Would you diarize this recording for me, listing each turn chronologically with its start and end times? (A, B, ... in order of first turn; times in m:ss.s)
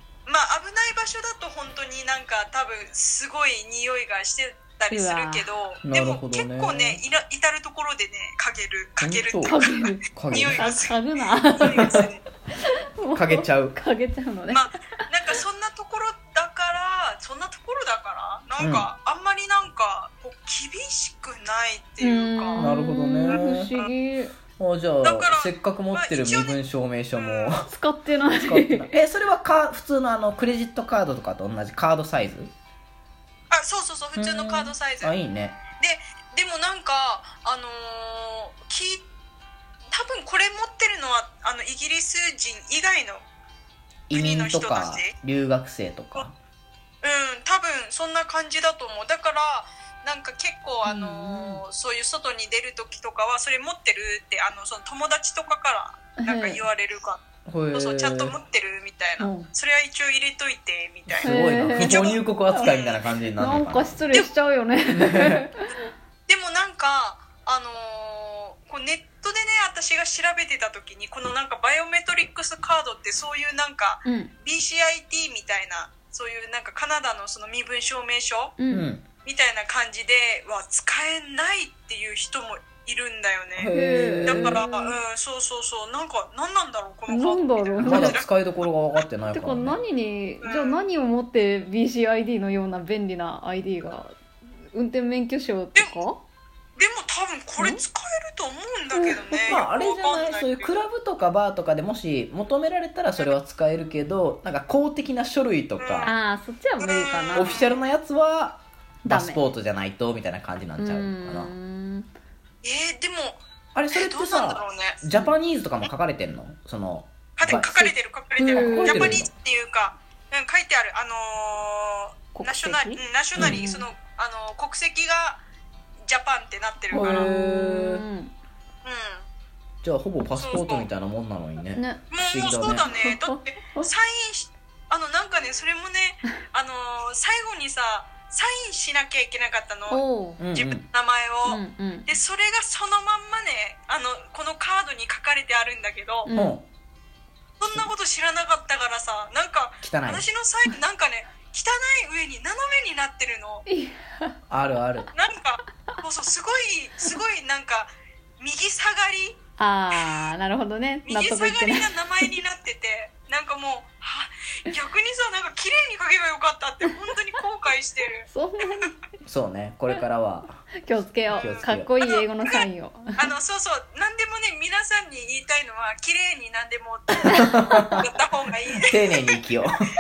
0:00.3-0:12.2 A
0:04.9-0:05.5 B
0:05.8-0:07.0 C
0:09.0-0:09.6 C
0:09.4-0:14.7 B
0:10.1-0:10.7 C
0:11.7-0:12.0 C
0:13.2-0:13.8 C
0:14.5-0:22.7 A
0:18.6-0:18.9 C
0:22.0-0:24.4 B
0:22.6-0:23.7 C
0:23.3-0:23.9 A
0:24.6-0:27.7 C
0:25.0-0:26.6 A
0:27.2-0:27.6 A
0:27.7-0:28.9 B
0:28.3-0:32.5 C
0:33.5-0:35.2 A
0:34.2-0:35.6 C
0:35.8-0:39.0 A
0:39.9-0:43.2 A
0:44.1-0:46.4 C
0:44.1-0:45.1 A
0:47.0-0:57.2 A
0:50.8-0:51.6 B
0:56.2-0:56.6 B
0:57.5-0:58.4 C
0:57.7-1:03.0 A
0:59.2-0:59.5 B
1:01.1-1:04.0 C
1:01.2-1:02.0 B
1:03.4-1:05.7 B
1:04.9-1:05.5 C
1:06.3-1:18.6 A
1:14.1-1:14.3 B
1:18.6-1:18.9 B
1:18.7-1:19.1 C
1:19.2-1:23.7 A
1:23.6-1:24.6 C
1:23.7-1:25.0 B
1:24.2-1:29.0 A
1:27.1-1:28.2 B
1:27.8-1:29.8 C
1:29.3-1:34.2 B
1:30.4-1:30.9 A
1:34.7-1:36.2 B
1:36.8-1:40.9 A
1:37.6-1:37.8 B
1:38.9-1:39.7 B
1:39.5-1:46.1 C
1:45.8-1:46.2 A
1:46.0-1:47.7 B
1:46.8-1:47.8 A
1:47.3-1:51.5 C
1:49.0-1:49.5 B
1:50.8-1:52.1 B
1:52.6-1:55.0 A
1:53.8-1:57.7 C
1:57.4-2:05.4 A
1:57.5-1:59.2 B
1:58.4-1:59.3 C
2:02.3-2:03.9 B
2:03.4-2:03.6 C
2:06.1-2:07.3 A
2:06.9-2:08.0 C
2:07.0-2:08.3 B
2:08.8-2:09.3 A
2:09.8-2:12.9 C
2:10.4-2:10.9 A
2:11.8-2:13.6 B
2:12.1-2:26.3 A
2:19.9-2:20.4 B
2:20.4-2:20.8 C
2:21.5-2:22.1 B
2:26.2-2:26.6 B
2:26.3-2:26.6 C
2:27.6-2:33.6 A
2:29.8-2:30.2 C
2:33.7-2:34.4 B
2:34.5-2:35.1 C
2:35.1-2:39.4 A
2:39.6-2:42.3 B
2:41.0-2:48.9 A
2:48.3-2:49.0 B
2:49.2-2:50.7 C
2:50.8-2:53.2 B
2:51.3-2:52.0 C
2:51.4-2:52.6 A
2:53.2-2:59.4 A
2:57.3-2:58.0 C
2:57.3-2:58.0 B
2:58.8-2:59.9 C